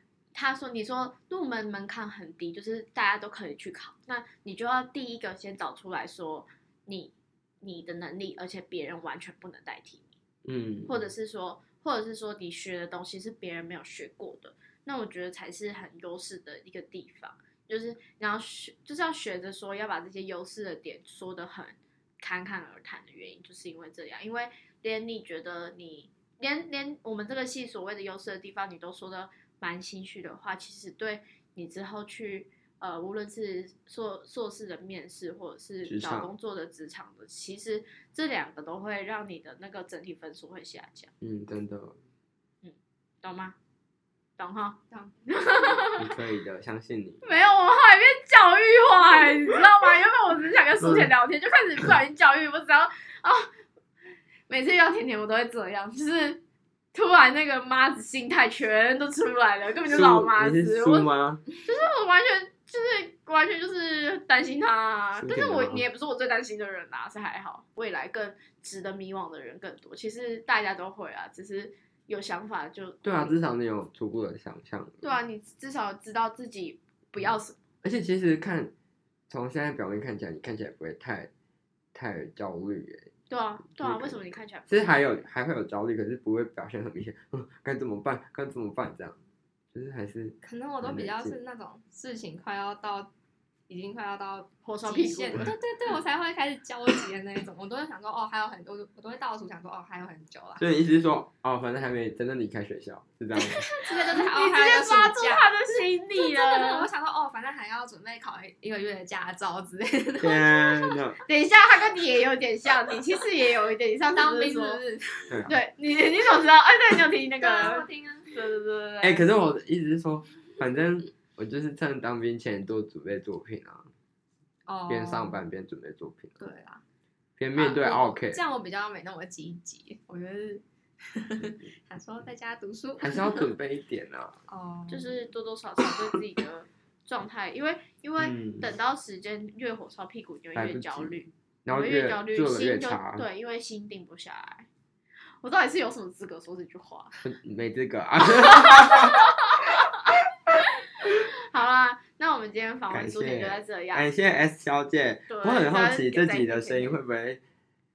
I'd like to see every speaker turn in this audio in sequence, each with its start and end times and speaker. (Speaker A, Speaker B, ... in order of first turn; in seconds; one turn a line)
Speaker A: 0.3-10.2
Speaker B: 10.4-11.0
Speaker A: 10.9-41.1
Speaker B: 35.8-36.3
Speaker B: 41.2-42.0
Speaker A: 42.6-43.5
Speaker A: 44.4-46.1
Speaker B: 46.0-47.2
Speaker A: 47.2-53.5
Speaker B: 50.8-51.1
Speaker A: 54.5-56.4
Speaker A: 56.9-73.4
Speaker B: 59.9-61.4
Speaker B: 65.2-65.8
Speaker B: 73.0-75.1
Speaker A: 75.0-77.6
Speaker B: 77.8-78.7
Speaker B: 79.3-81.3
Speaker B: 81.9-83.1
Speaker A: 83.3-85.2
Speaker B: 83.7-89.2
Speaker B: 89.7-91.4
Speaker C: 90.4-93.1
Speaker C: 93.7-100.6
Speaker A: 94.6-95.4
Speaker B: 100.6-103.6
Speaker A: 103.4-106.9
Speaker C: 103.5-111.0
Speaker B: 110.2-111.2
Speaker A: 111.2-114.8
Speaker C: 114.1-115.4
Speaker A: 115.5-119.2
Speaker C: 117.4-118.3
Speaker B: 119.0-123.9
Speaker C: 124.7-125.4
Speaker B: 124.9-126.4
Speaker C: 126.4-126.8
Speaker B: 127.4-128.4
Speaker C: 127.5-130.2
Speaker A: 130.1-130.6
Speaker C: 131.0-133.5
Speaker B: 133.0-134.4
Speaker C: 134.5-135.2
Speaker A: 134.9-144.7
Speaker B: 138.2-138.7
Speaker B: 140.5-143.2
Speaker A: 145.4-147.1
Speaker B: 147.2-149.2
Speaker A: 148.5-149.8
Speaker A: 151.1-154.1
Speaker B: 152.9-157.4
Speaker A: 155.3-157.0